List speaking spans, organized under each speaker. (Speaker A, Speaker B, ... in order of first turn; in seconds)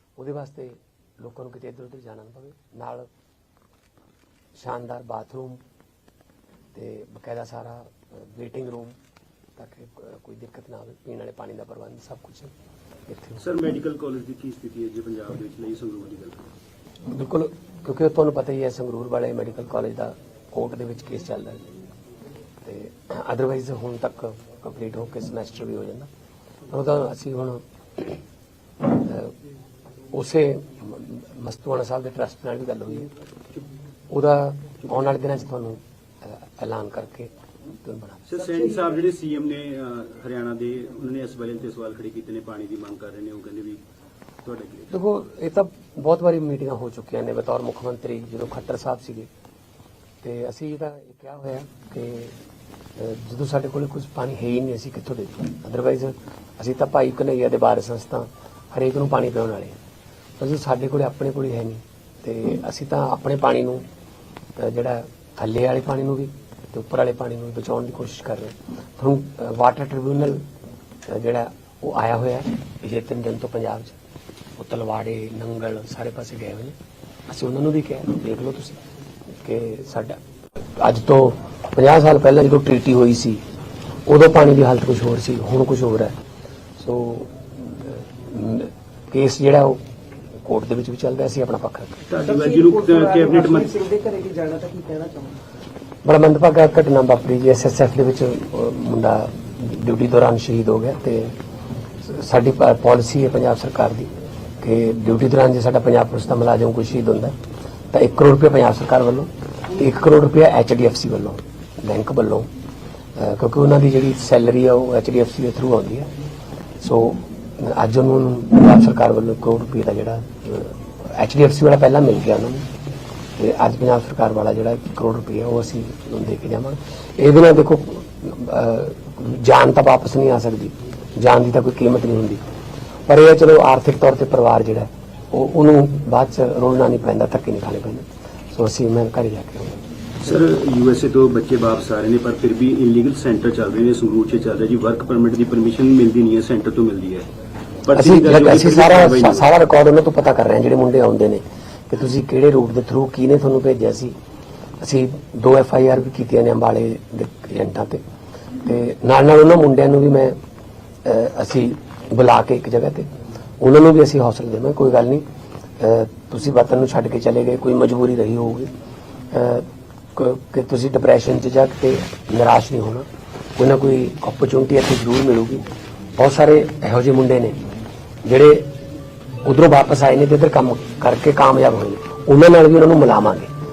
Speaker A: 0.2-3.1, 4.5-5.6, 6.7-9.0, 9.6-12.5, 13.1-13.4, 17.1-21.7, 22.6-26.1, 26.7-28.2, 28.9-29.3, 30.1-33.1, 34.1-38.3, 44.9-49.3, 50.2-52.3, 53.0-59.8, 60.4-63.8, 64.6-70.4, 71.1-74.0, 74.6-76.8, 77.3-78.8, 79.4-80.2, 80.8-83.4, 84.0-86.2, 86.8-89.8, 90.4-92.0, 96.0-101.3, 102.0-104.1, 104.6-107.3, 107.9-112.5, 113.2-116.1, 116.8-122.7, 123.4-132.4, 133.1-139.8, 147.9-154.2, 154.8-158.0, 158.6-160.3, 161.0-165.2, 165.8-168.7, 169.3-175.6, 176.2-177.6, 178.2-178.7, 179.4-183.5
Speaker B: 13.4-16.4, 38.3-43.8, 44.4-45.0, 92.1-93.7, 140.2-147.3, 147.8-149.5
Speaker C: 92.2-95.3